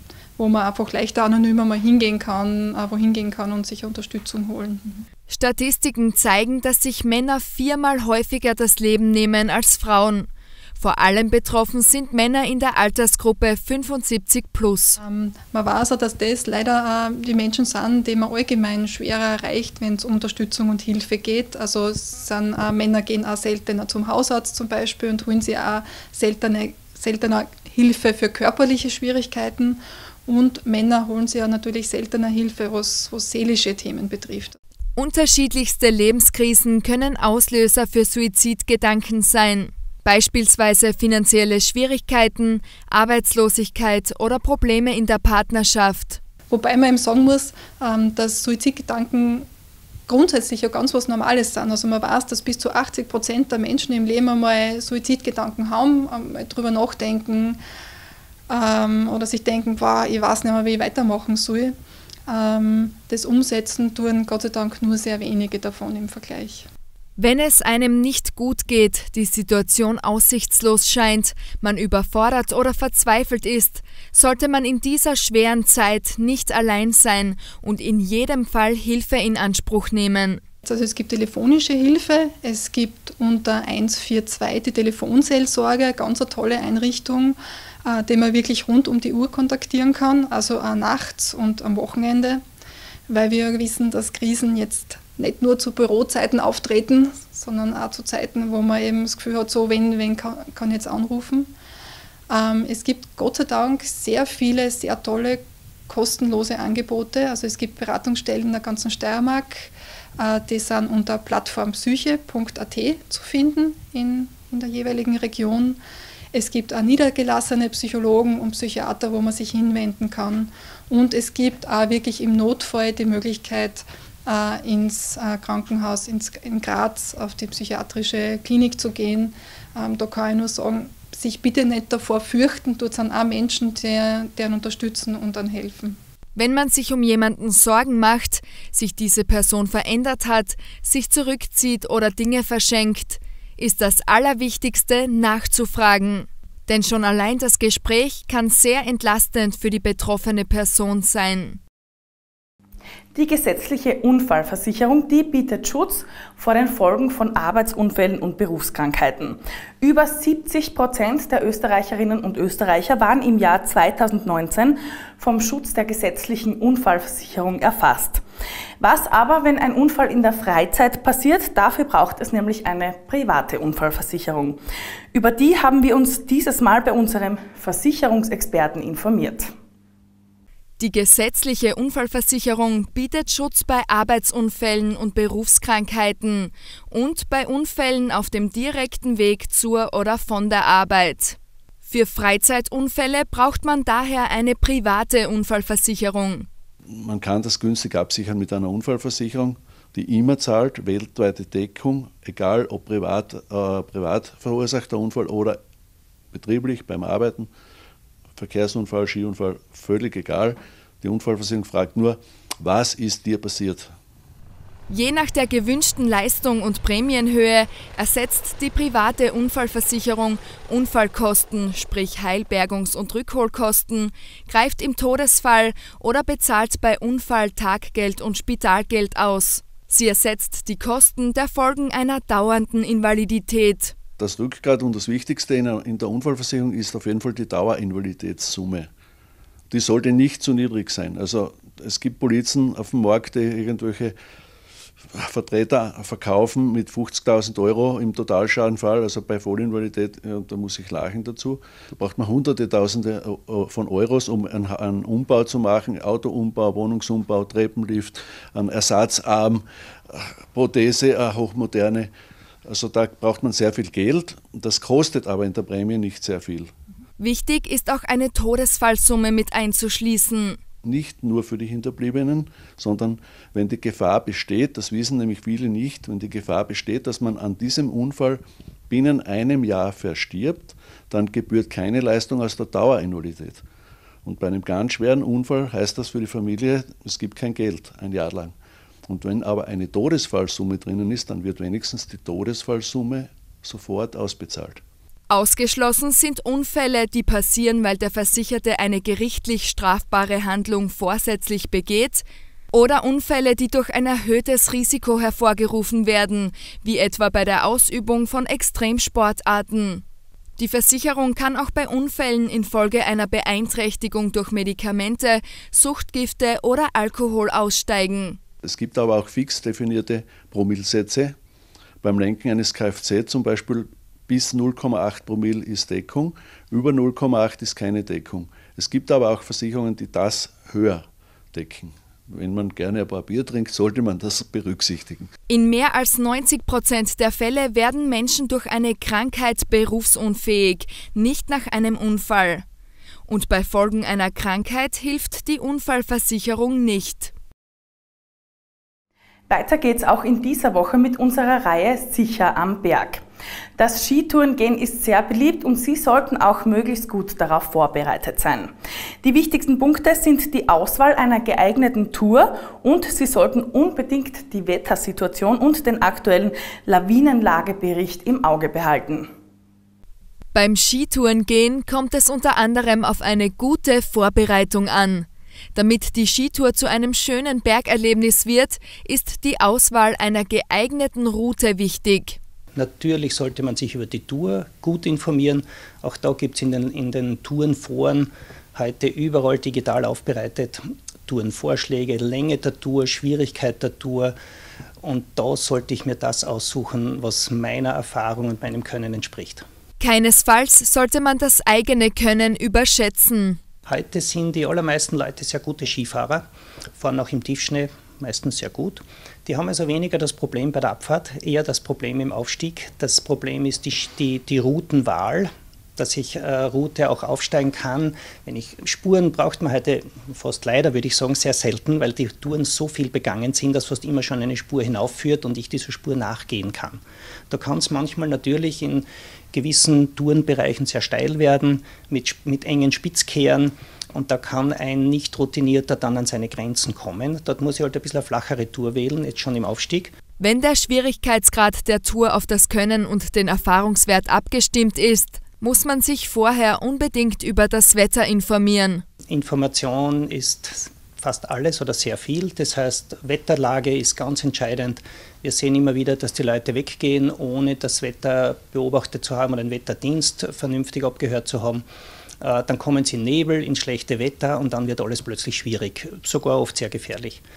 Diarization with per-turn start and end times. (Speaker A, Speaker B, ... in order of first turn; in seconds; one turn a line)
Speaker A: 0.4-5.0
Speaker B: 5.3-15.0
Speaker A: 15.0-34.5
Speaker B: 35.0-46.2
Speaker A: 46.5-49.5
Speaker A: 50.1-57.6
Speaker A: 58.5-61.8
Speaker A: 62.3-66.7
Speaker B: 67.2-80.4
Speaker A: 80.6-92.4
Speaker A: 93.1-101.5
Speaker A: 102.3-115.8
Speaker A: 116.3-136.0
Speaker B: 136.3-151.6
Speaker C: 153.1-168.2
Speaker C: 168.8-174.6
Speaker C: 175.1-179.5
Speaker B: 180.8-196.5
Speaker D: 196.9-205.6
Speaker D: 206.3-207.5
Speaker D: 208.4-213.9
Speaker B: 214.9-233.9
Speaker D: 234.2-238.9
Speaker D: 239.7-244.1
Speaker D: 245.1-262.1
Speaker D: 262.6-266.7
Speaker B: 267.2-270.6
Speaker D: 270.8-283.6
Speaker D: 284.2-288.5
Speaker D: 289.1-294.8
Speaker B: 295.3-310.0
Speaker B: 310.6-318.4
Speaker D: 318.6-321.4
Speaker D: 322.0-335.3
Speaker B: 335.5-342.6
Speaker B: 343.3-347.3
Speaker C: 349.5-353.2
Speaker C: 353.8-358.7
Speaker C: 359.2-369.3
Speaker B: 370.5-382.4
Speaker E: 382.7-394.4
Speaker E: 395.0-399.6
Speaker B: 400.0-403.6
Speaker E: 403.9-440.1
Speaker B: 440.4-449.0
Speaker E: 449.3-461.8
Speaker E: 462.4-467.4